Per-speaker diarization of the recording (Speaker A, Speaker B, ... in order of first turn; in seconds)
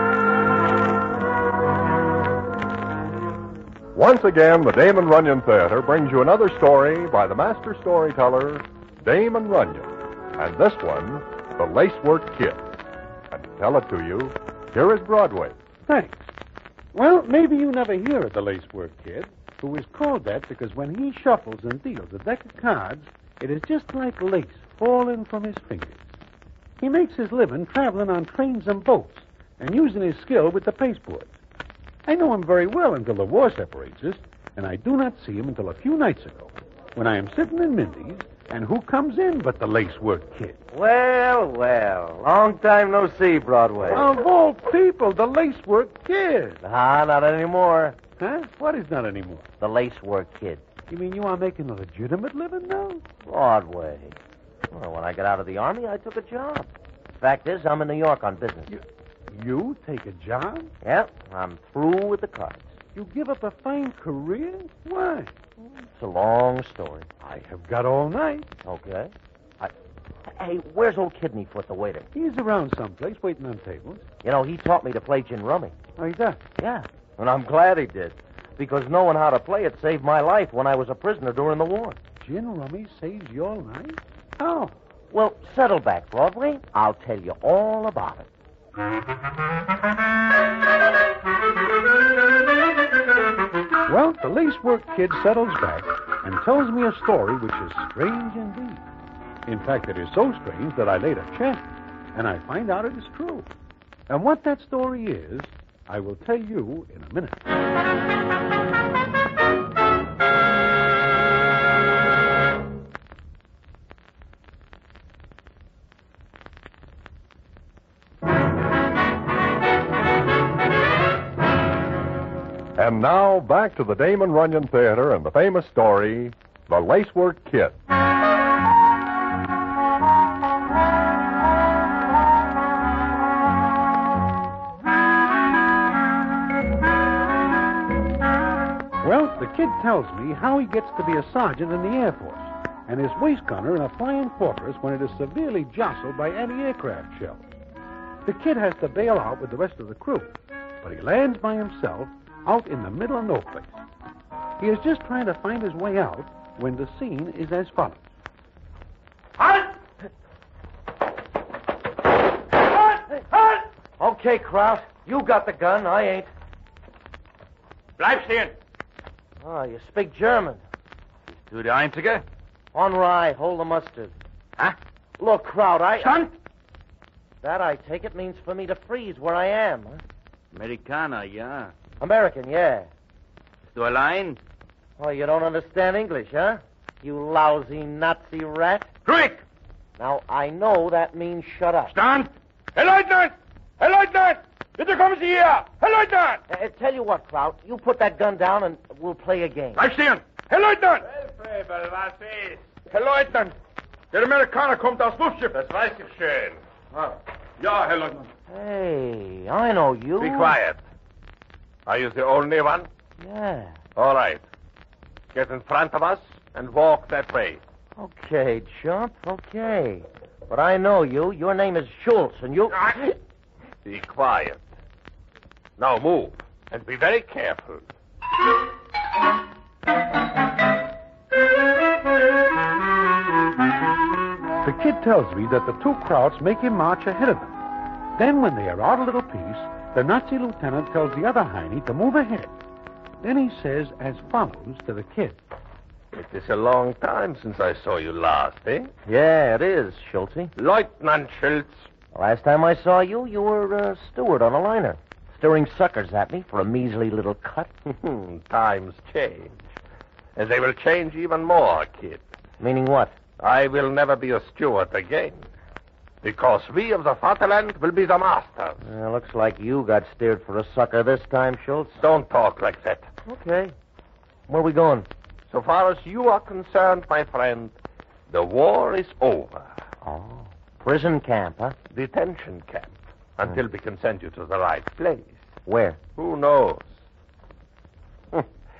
Speaker A: 3.9-12.7, 13.3-15.6, 122.8-127.8
Speaker B: 15.8-16.3, 16.9-26.0, 26.8-31.3, 32.0-40.6, 43.9-46.6, 48.2-49.5, 50.9-53.0, 58.7-60.7, 62.9-65.3, 67.2-68.5, 72.1-74.0, 76.0-76.4, 82.2-84.7, 93.9-98.8, 99.5-103.5, 104.1-107.6, 139.0-147.5, 148.2-153.7, 154.6-158.0, 234.6-237.6, 238.2-242.5, 243.2-245.4
Speaker C: 40.7-44.0, 46.6-48.0, 49.6-50.6, 53.2-54.2, 54.7-56.7, 57.2-58.7, 60.8-62.6, 65.8-67.1, 68.6-69.7, 70.2-72.1, 74.2-75.8, 76.6-82.0, 85.1-88.3, 162.5-166.3, 169.4-170.6, 172.7-174.6, 175.2-176.3, 177.4-180.0, 182.0-182.9, 185.0-188.9, 190.0-191.9, 196.5-199.8, 208.5-210.6, 213.2-213.8, 218.0-223.2, 249.1-250.5, 252.1-257.7, 262.6-263.1, 268.8-272.0, 273.2-273.7, 274.5-275.1, 280.0-281.8, 285.6-286.0
Speaker D: 168.0-168.6, 171.3-172.2, 176.0-176.3, 180.5-181.7, 183.7-184.4, 189.0-189.4, 191.9-196.4, 199.8-201.6, 202.9-203.5, 204.1-205.5, 207.0-208.3
Speaker E: 201.3-202.6, 205.5-206.6, 210.2-210.8, 211.8-212.9, 213.9-214.4, 215.3-217.6, 223.8-224.6, 225.8-227.9, 246.1-248.9, 250.6-251.9, 257.9-259.7, 260.3-262.3, 263.4-265.5, 266.2-268.8, 272.0-273.1, 275.5-277.7, 278.3-279.7, 281.9-285.4, 286.1-286.9